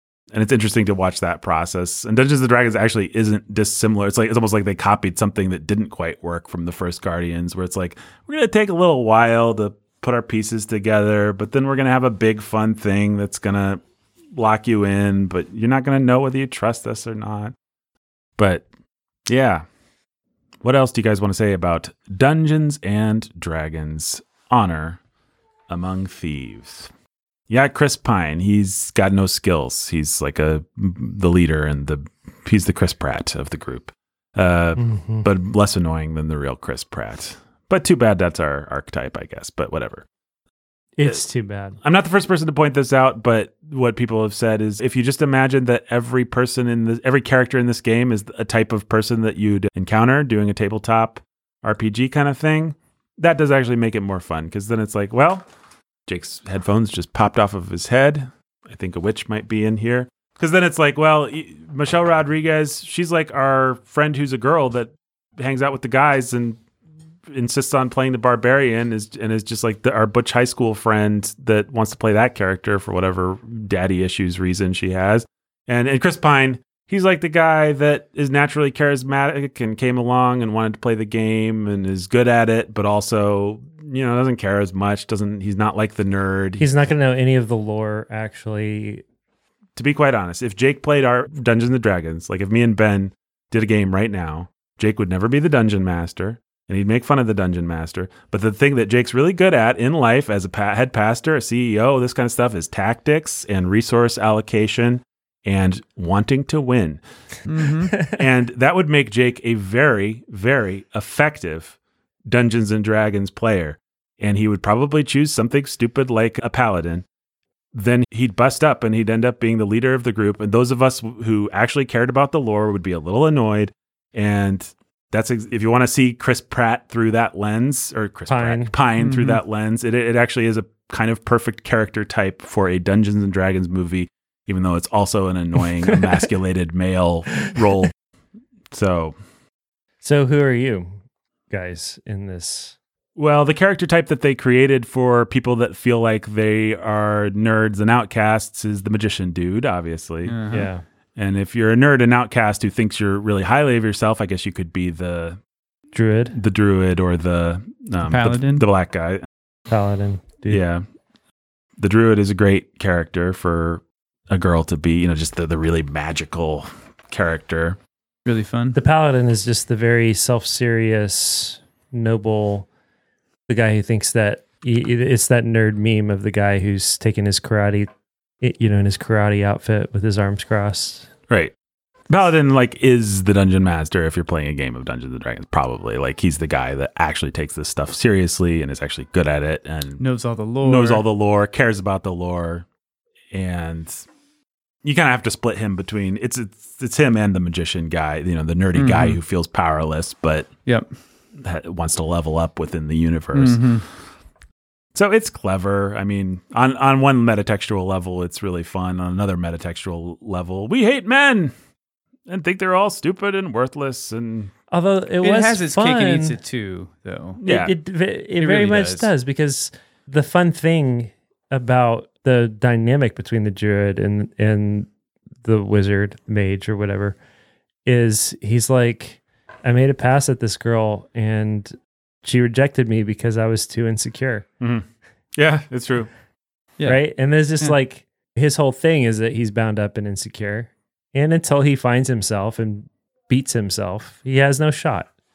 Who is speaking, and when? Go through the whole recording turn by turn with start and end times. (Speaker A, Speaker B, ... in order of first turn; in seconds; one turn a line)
Speaker A: 0.3-13.8
Speaker A: 14.4-17.5
Speaker A: 18.4-18.6
Speaker A: 19.3-19.6
Speaker A: 20.6-25.0
Speaker A: 25.7-26.9
Speaker A: 27.5-40.0
Speaker B: 34.8-35.3
Speaker B: 41.0-41.8
Speaker A: 41.8-55.5
Speaker A: 56.1-66.6
Speaker A: 67.3-86.7
Speaker B: 86.6-89.0
Speaker A: 89.8-107.0
Speaker C: 107.5-107.9
Speaker B: 107.9-108.2
Speaker A: 108.1-111.7
Speaker A: 112.3-117.0
Speaker A: 117.7-137.9
Speaker B: 128.3-128.7
Speaker C: 129.0-129.4
Speaker A: 138.7-139.2
Speaker B: 140.0-140.9
Speaker B: 141.5-142.8
Speaker A: 143.2-150.4
Speaker C: 150.2-150.7
Speaker B: 150.5-150.8
Speaker A: 151.2-155.4
Speaker B: 155.9-156.3
Speaker A: 156.3-159.2
Speaker C: 158.1-158.6
Speaker B: 159.7-160.6
Speaker A: 160.5-160.8
Speaker A: 161.8-167.8
Speaker C: 168.2-168.8
Speaker B: 168.7-172.7
Speaker B: 173.5-177.9
Speaker B: 178.4-181.1
Speaker A: 181.3-181.5
Speaker A: 182.1-190.0
Speaker C: 190.0-191.0
Speaker A: 190.6-192.7
Speaker A: 193.3-194.1
Speaker A: 194.8-200.5
Speaker C: 198.7-199.2
Speaker A: 201.4-203.8
Speaker C: 203.3-203.8
Speaker A: 204.9-211.5
Speaker A: 212.3-214.5
Speaker B: 214.7-216.4
Speaker C: 215.2-217.4
Speaker A: 217.4-217.7
Speaker B: 217.4-224.9
Speaker C: 218.4-219.0
Speaker B: 225.4-227.2
Speaker B: 227.8-234.4
Speaker A: 234.6-236.1
Speaker B: 236.8-245.1